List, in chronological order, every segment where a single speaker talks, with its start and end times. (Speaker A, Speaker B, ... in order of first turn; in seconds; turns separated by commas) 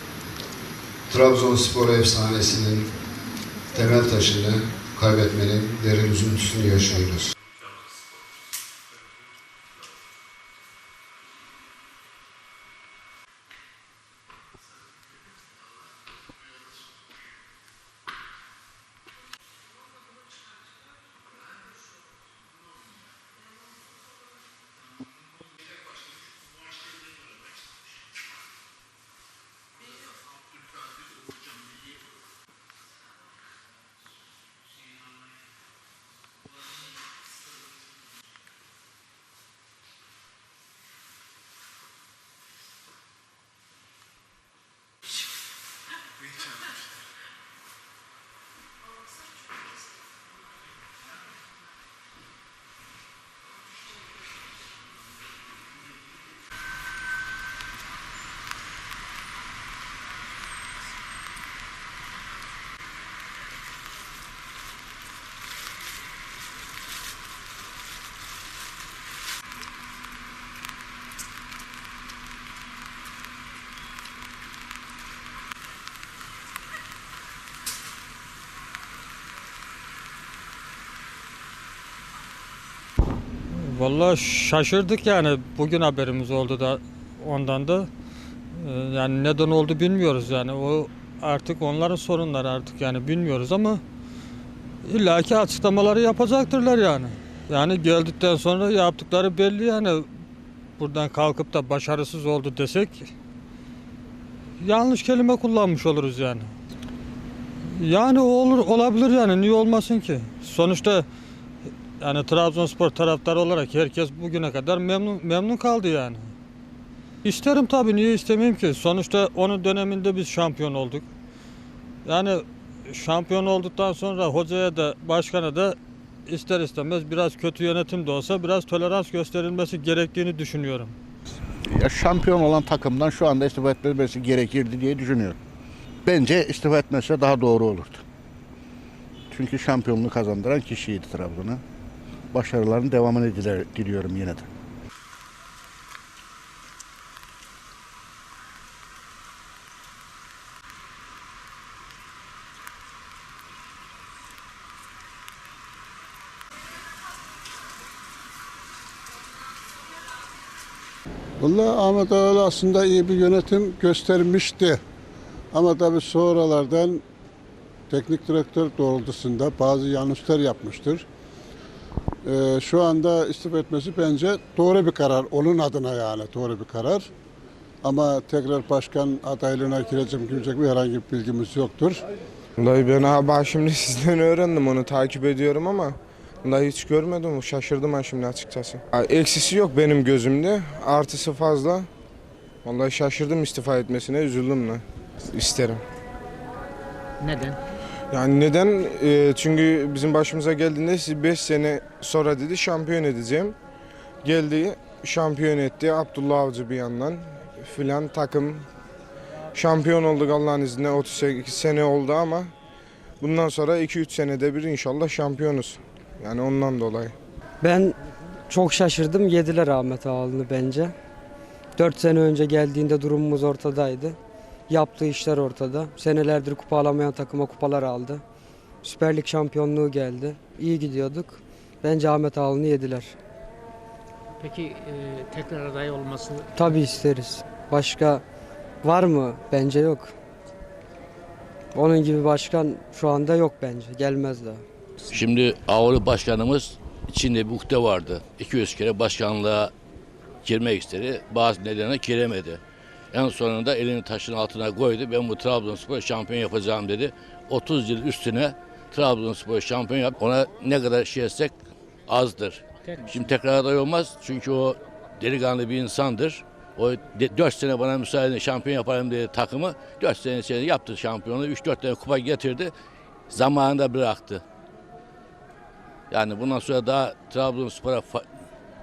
Speaker A: 1.1-2.9, Speaker A: 3.7-7.3, Speaker B: 83.7-87.9, Speaker B: 88.6-93.8, Speaker B: 94.8-100.1, Speaker B: 100.8-103.1, Speaker B: 104.6-106.5, Speaker B: 107.8-111.1, Speaker B: 112.0-116.3, Speaker B: 117.2-121.0, Speaker B: 122.0-125.8, Speaker B: 126.3-130.9, Speaker C: 131.7-135.4, Speaker C: 136.1-138.0, Speaker C: 139.3-141.6, Speaker C: 142.3-144.5, Speaker D: 161.4-164.8, Speaker D: 165.5-167.0, Speaker D: 167.9-171.1, Speaker D: 172.2-177.1, Speaker D: 177.8-182.0, Speaker E: 182.6-191.9, Speaker E: 192.7-195.8, Speaker F: 197.2-197.6, Speaker E: 198.1-203.6, Speaker E: 204.2-208.7, Speaker E: 209.5-212.5, Speaker E: 213.2-217.1, Speaker G: 217.6-218.0, Speaker G: 218.5-220.9, Speaker G: 221.8-224.2, Speaker G: 224.7-228.2, Speaker G: 228.8-233.2, Speaker F: 234.4-236.5, Speaker G: 236.6-238.2, Speaker G: 238.8-240.1, Speaker G: 241.7-244.6, Speaker H: 245.1-249.7, Speaker H: 250.4-252.6, Speaker H: 253.1-261.5, Speaker H: 262.1-272.7, Speaker F: 262.9-263.4, Speaker H: 273.3-274.4, Speaker H: 276.1-278.2